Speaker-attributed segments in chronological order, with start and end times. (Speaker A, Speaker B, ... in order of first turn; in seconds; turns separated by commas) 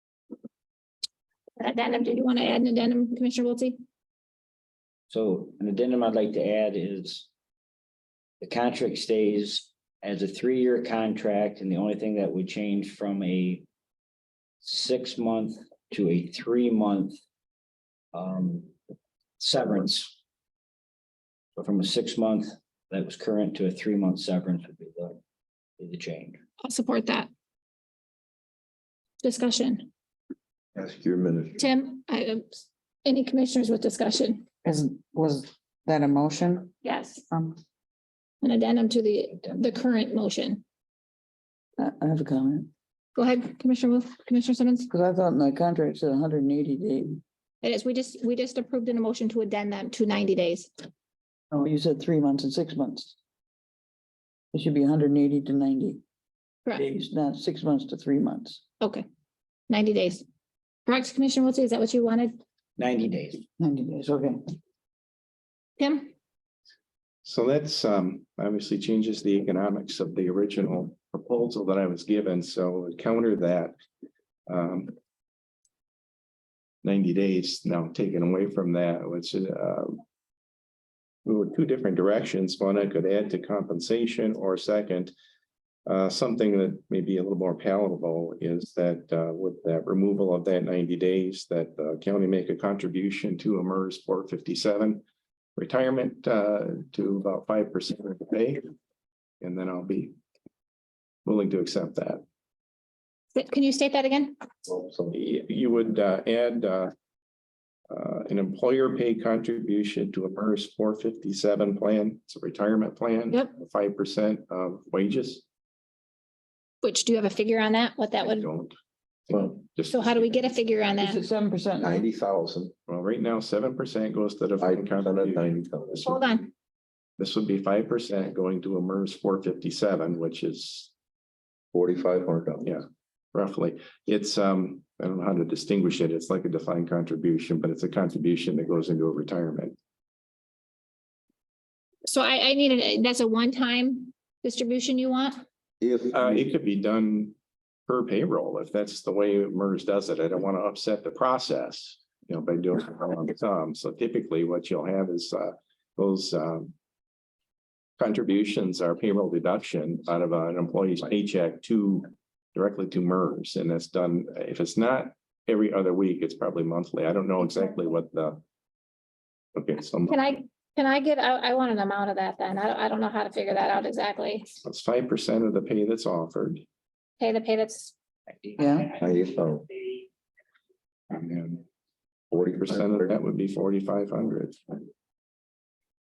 Speaker A: 1.6-3.8, Speaker B: 5.1-7.3, Speaker B: 8.4-13.7, Speaker B: 14.6-17.2, Speaker B: 18.1-18.7, Speaker B: 19.4-20.2, Speaker B: 21.6-25.2, Speaker B: 25.8-26.4, Speaker A: 26.6-27.3, Speaker A: 29.2-29.9, Speaker C: 30.7-31.6, Speaker A: 31.6-34.5, Speaker D: 34.6-36.7, Speaker A: 36.8-37.3, Speaker D: 37.3-37.6, Speaker A: 38.4-40.6, Speaker D: 41.8-42.7, Speaker A: 43.1-44.9, Speaker D: 44.9-47.2, Speaker A: 47.6-50.7, Speaker D: 51.5-53.1, Speaker D: 54.5-56.0, Speaker D: 56.7-58.6, Speaker A: 58.8-59.0, Speaker A: 59.7-60.2, Speaker A: 60.9-62.3, Speaker B: 62.8-63.4, Speaker D: 63.6-64.4, Speaker A: 65.8-66.1, Speaker E: 67.2-73.7, Speaker E: 74.5-74.9, Speaker E: 76.8-80.0, Speaker E: 81.2-85.1, Speaker E: 85.8-95.0, Speaker E: 95.5-98.7, Speaker E: 99.4-100.2, Speaker E: 101.2-102.2, Speaker A: 103.3-104.4, Speaker C: 104.7-105.1, Speaker E: 105.1-106.9, Speaker E: 107.9-115.4, Speaker A: 116.8-118.5, Speaker E: 118.2-120.6, Speaker C: 119.3-119.6, Speaker A: 119.9-121.2, Speaker D: 121.0-122.0, Speaker C: 121.8-122.7, Speaker E: 122.9-126.2, Speaker C: 124.6-126.1, Speaker A: 126.0-126.5, Speaker E: 127.2-130.9, Speaker C: 131.7-132.8, Speaker E: 132.6-139.8, Speaker A: 142.1-145.4, Speaker C: 145.8-146.4, Speaker E: 146.1-147.3, Speaker E: 147.9-156.7, Speaker E: 158.0-168.4, Speaker E: 169.5-170.2, Speaker A: 170.1-174.5, Speaker E: 174.6-176.6, Speaker A: 177.2-177.9, Speaker D: 178.6-178.9, Speaker C: 179.0-179.7, Speaker E: 181.1-181.6, Speaker C: 182.3-183.1, Speaker E: 182.5-184.8